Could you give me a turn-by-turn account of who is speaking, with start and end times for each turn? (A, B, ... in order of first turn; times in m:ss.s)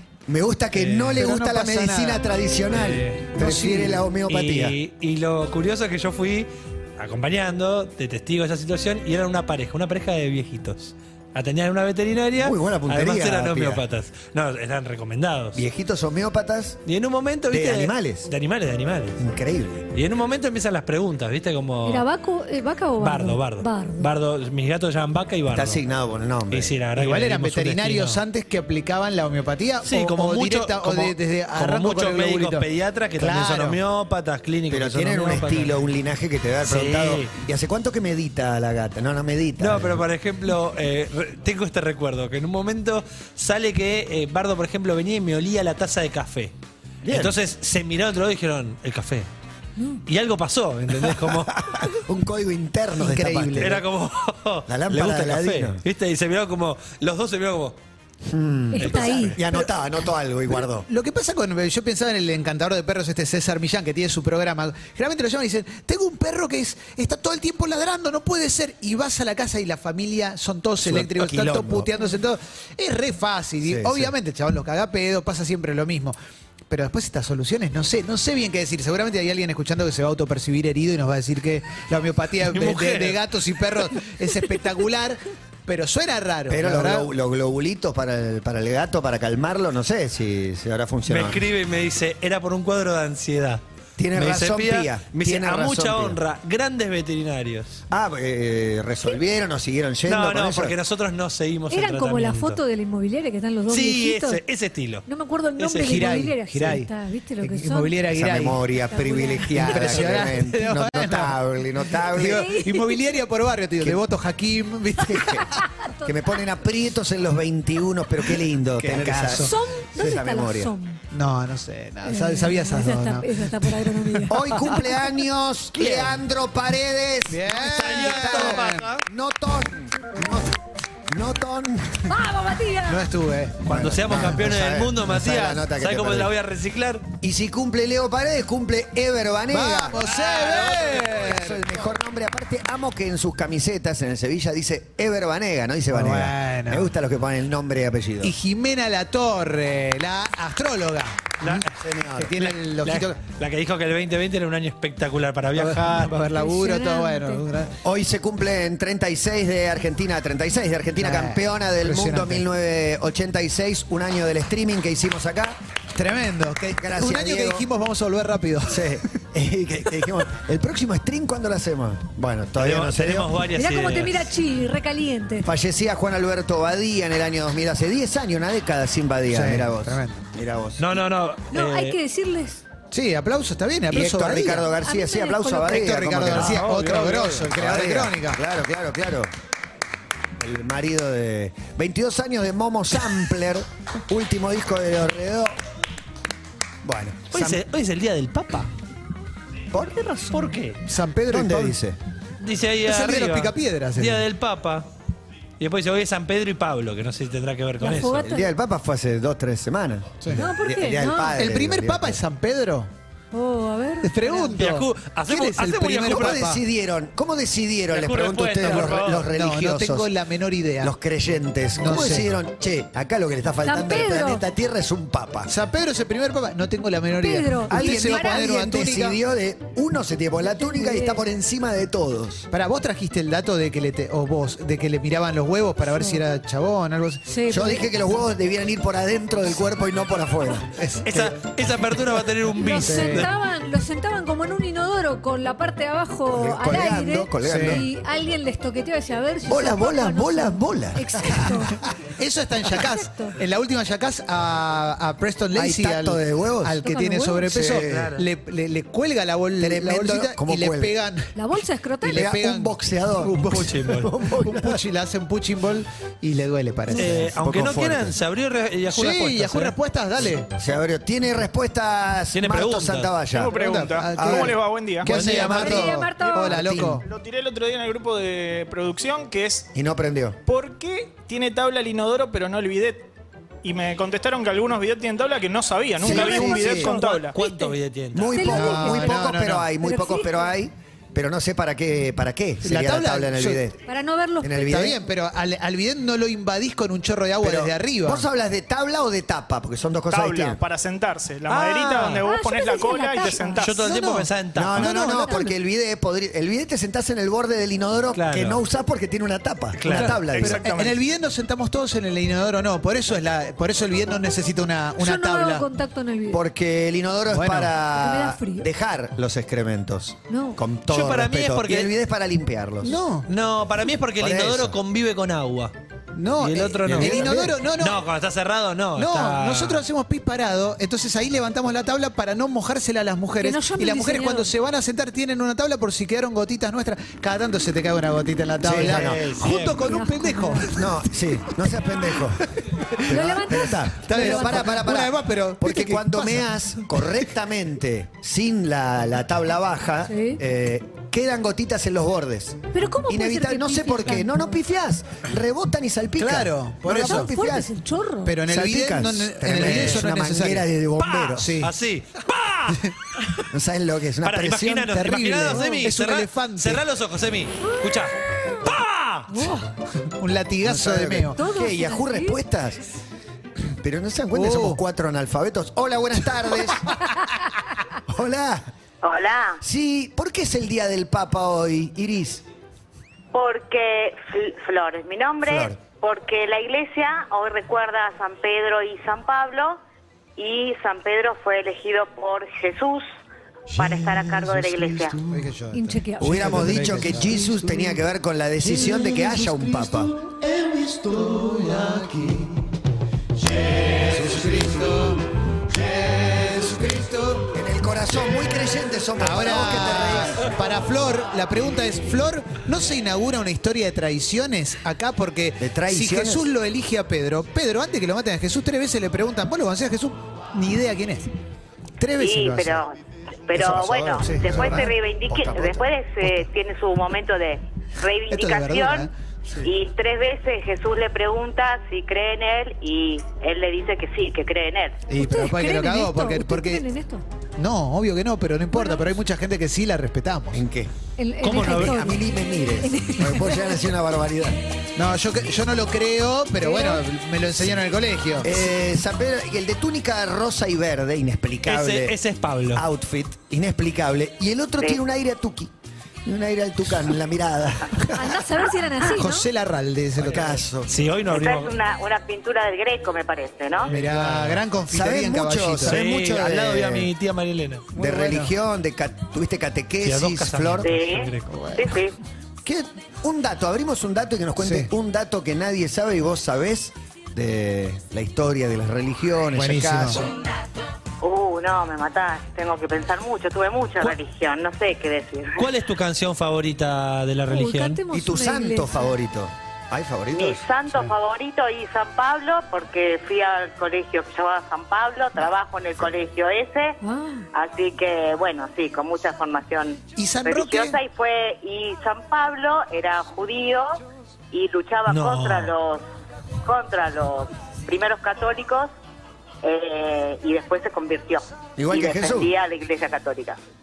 0:00.3-0:04.8 A
0:00.8-0:01.2 B
0:01.0-0:02.2 C
0:02.7-0:03.2 B
0:03.4-0:04.0 C
0:04.3-0:15.6 B
0:12.4-0:13.8 A
0:15.6-0:16.8 A
0:16.9-0:19.2 B
0:17.5-0:18.3 A
0:19.2-0:19.9 A
0:19.9-0:22.1 B
0:21.8-0:24.1 D
0:23.0-0:25.8 B
0:25.5-0:26.7 A
0:26.5-0:28.2 B
0:27.0-0:32.7 C
0:29.8-0:35.8 B
0:33.2-0:33.8 C
0:34.7-0:40.1 A
0:36.6-0:37.3 B
0:39.6-0:46.5 B
0:47.0-0:47.4 A
0:47.1-0:49.3 B
0:50.1-0:51.7 B
0:51.1-0:53.8 A
0:53.0-0:53.8 C
0:53.6-0:57.8 B
0:54.7-0:55.8 A
0:58.3-1:00.9 A
0:58.7-0:59.4 D
0:58.8-0:59.4 B
1:00.8-1:16.2 C
1:10.8-1:11.9 A
1:13.6-1:14.1 A
1:16.7-1:27.1 C
1:22.4-1:23.2 B
1:26.5-1:31.4 A
1:31.1-1:33.6 B
1:34.0-1:36.2 A
1:34.1-1:37.8 B
1:37.9-1:40.8 A
1:40.1-1:42.6 B
1:41.7-1:44.4 D
1:43.7-1:45.1 B
1:45.1-1:48.0 D
1:45.6-1:46.1 B
1:45.8-1:46.9 C
1:47.4-1:48.6 C
1:48.1-1:52.6 A
1:48.9-1:50.2 D
1:49.6-1:51.4 C
1:51.9-1:55.6 C
1:52.3-1:53.0 D
1:55.0-1:55.5 A
1:55.4-1:56.5 D
1:56.0-2:00.7 A
1:58.8-1:59.5 C
1:59.3-2:01.0 D
2:01.1-2:04.7 C
2:02.0-2:04.4 D
2:04.3-2:12.1 A
2:05.8-2:06.1 C
2:07.3-2:08.8 C
2:07.7-2:09.0 B
2:12.1-2:13.0 D
2:12.9-2:13.7 C
2:13.7-2:16.3 A
2:13.7-2:17.1 B
2:17.2-2:28.3 A
2:19.5-2:21.6 C
2:20.1-2:21.1 B
2:25.9-2:26.9 C
2:28.2-2:31.6 C
2:31.4-2:31.7 B
2:31.4-2:32.5 A
2:32.2-2:33.2 C
2:32.4-2:36.2 B
2:35.6-2:37.8 C
2:36.3-2:37.4 D
2:37.8-2:45.6 A
2:41.0-2:42.4 C
2:46.0-2:49.0 C
2:46.8-2:47.7 A
2:48.7-2:53.4 A
2:52.6-2:54.3 B
2:53.6-2:55.5 D
2:55.4-3:00.8 A
2:59.3-3:00.2 C
3:00.8-3:02.0 B
3:01.5-3:02.6 D
3:02.9-3:04.7 C
3:03.9-3:09.3 A
3:04.8-3:05.9 D
3:05.7-3:08.4 C
3:06.3-3:07.4 B
3:10.4-3:15.6 A
3:16.8-3:17.6 A
3:17.3-3:18.7 B
3:19.7-3:20.3 A
3:20.1-3:20.8 B
3:20.8-3:21.8 C
3:21.2-3:22.0 A
3:22.4-3:24.9 B
3:22.8-3:24.2 C
3:25.6-3:28.3 B
3:27.8-3:28.5 D
3:28.2-3:32.2 A
3:30.2-3:30.5 C
3:30.3-3:31.4 D
3:31.3-3:32.9 C
3:33.3-3:34.6 D
3:34.0-3:36.6 C
3:34.5-3:36.5 B
3:36.0-3:40.1 A
3:37.9-3:39.3 B
3:39.2-3:40.9 C
3:40.8-3:45.5 A
3:41.8-3:42.3 C
3:43.6-3:44.4 D
3:45.5-3:49.2 C
3:47.1-3:48.5 D
3:47.7-3:52.5 A
3:50.4-3:51.2 D
3:52.5-3:57.4 C
3:55.9-3:56.2 D
3:57.3-3:57.8 D
3:57.5-4:01.3 A
4:00.8-4:01.2 C
4:01.1-4:03.3 B
4:02.6-4:11.8 D
4:02.6-4:03.3 C
4:06.3-4:07.9 A
4:07.4-4:07.8 C
4:09.5-4:11.7 A
4:12.0-4:21.4 C
4:12.7-4:13.4 D
4:15.5-4:16.8 A
4:16.8-4:17.7 D
4:17.5-4:18.2 A
4:17.8-4:18.2 B
4:19.6-4:21.0 A
4:21.4-4:22.3 D
4:22.0-4:27.3 C
4:22.1-4:24.8 A
4:23.3-4:24.1 B
4:26.9-4:27.2 D
4:26.9-4:29.8 B
4:27.2-4:28.2 A
4:28.9-4:30.5 C
4:30.5-4:33.6 A
4:32.3-4:33.2 B
4:33.3-4:35.1 E
4:33.5-4:37.0 C
4:34.2-4:34.5 A
4:35.1-4:37.0 A
4:35.1-4:35.6 B
4:35.3-4:36.6 D
4:37.0-4:39.7 E
4:39.7-4:40.4 A
4:40.5-4:43.1 E
4:43.6-4:47.4 E
4:46.0-4:46.9 A
4:46.1-4:48.4 B
4:46.8-4:47.8 D
4:48.1-4:53.8 A
4:48.3-4:50.6 D
4:48.4-4:49.7 C
4:52.6-4:53.6 C
4:53.9-4:54.6 D
4:54.4-4:55.0 A
4:54.6-4:58.3 C
4:57.4-5:00.6 A
5:00.1-5:03.8 E
5:01.5-5:02.3 B
5:02.2-5:03.6 D
5:03.5-5:04.8 B
5:03.8-5:05.4 C
5:04.6-5:10.6 A
5:04.8-5:05.5 D
5:08.2-5:08.6 B
5:09.8-5:10.2 B
5:09.9-5:15.7 C
5:10.3-5:11.0 E
5:15.0-5:16.4 D
5:16.3-5:23.0 A
5:17.3-5:17.7 C
5:17.9-5:18.7 D
5:20.3-5:20.6 D
5:20.9-5:21.9 B
5:22.8-5:23.3 C
5:23.3-5:25.7 B
5:24.2-5:24.8 A
5:26.1-5:28.0 C
5:26.4-5:29.8 B
5:26.9-5:27.5 A
5:29.0-5:47.3 C
5:33.4-5:34.5 D
5:38.6-5:39.2 A
5:38.7-5:39.9 B
5:39.7-5:40.7 D
5:40.7-5:57.7 A
5:43.1-5:44.7 D
5:50.1-5:50.4 D
5:52.7-5:54.4 D
5:56.2-5:57.3 C
5:56.9-5:58.4 D
5:58.2-6:00.7 C
5:58.5-6:01.6 A
5:59.6-6:00.0 B
6:01.0-6:03.5 B
6:01.4-6:01.7 C
6:03.5-6:05.1 A
6:04.2-6:09.6 B
6:04.9-6:06.8 C
6:05.6-6:05.9 D
6:07.6-6:08.0 D
6:09.3-6:09.7 D
6:10.0-6:11.4 C
6:10.6-6:12.8 A
6:11.4-6:12.4 D
6:13.7-6:17.0 A
6:14.3-6:14.8 C
6:18.1-6:18.7 A
6:19.0-6:19.6 F
6:19.6-6:22.4 A
6:23.3-6:29.8 F
6:25.4-6:25.8 A
6:30.4-6:33.1 F
6:33.8-6:35.2 F
6:33.8-6:35.4 A
6:35.3-6:37.9 C
6:35.7-6:36.8 D
6:36.2-6:40.1 A
6:38.7-6:42.6 C
6:43.4-6:47.5 C
6:47.5-6:50.5 A
6:49.2-7:01.3 C
6:55.6-6:56.5 A
7:02.0-7:02.8 C
7:02.2-7:02.9 F
7:03.5-7:09.1 F
7:03.5-7:05.8 A
7:04.2-7:04.9 C
7:08.3-7:09.7 C
7:09.6-7:15.1 F
7:15.1-7:16.8 C
7:15.2-7:17.2 D
7:17.6-7:20.6 C
7:18.8-7:19.0 D
7:20.5-7:24.6 A
7:21.2-7:23.9 D
7:21.4-7:22.0 B
7:25.0-7:28.6 C
7:26.6-7:27.0 D
7:28.4-7:32.2 A
7:31.6-7:32.8 B
7:32.7-7:35.7 A
7:36.2-7:38.6 A
7:38.1-7:39.5 D
7:39.0-7:40.6 C
7:40.2-7:40.9 A
7:40.9-7:41.8 B
7:41.3-7:43.9 F
7:43.9-7:46.0 C
7:43.9-7:44.6 B
7:44.9-7:47.1 A
7:45.8-7:47.9 B
7:48.0-7:48.5 C
7:48.0-7:50.9 A
7:50.0-7:51.6 B
7:50.8-7:52.2 F
7:51.5-7:51.9 C
7:52.6-8:00.3 A
7:54.6-7:54.9 C
7:59.6-8:00.2 C
8:01.2-8:05.7 F
8:05.6-8:08.0 B
8:07.5-8:09.1 D
8:08.1-8:10.6 A
8:10.3-8:17.0 F
8:17.0-8:17.5 D
8:17.5-8:24.0 F
8:20.2-8:21.0 C
8:24.5-8:26.0 F
8:25.1-8:25.7 B
8:26.6-8:28.9 F
8:29.6-8:33.6 F
8:31.8-8:32.5 A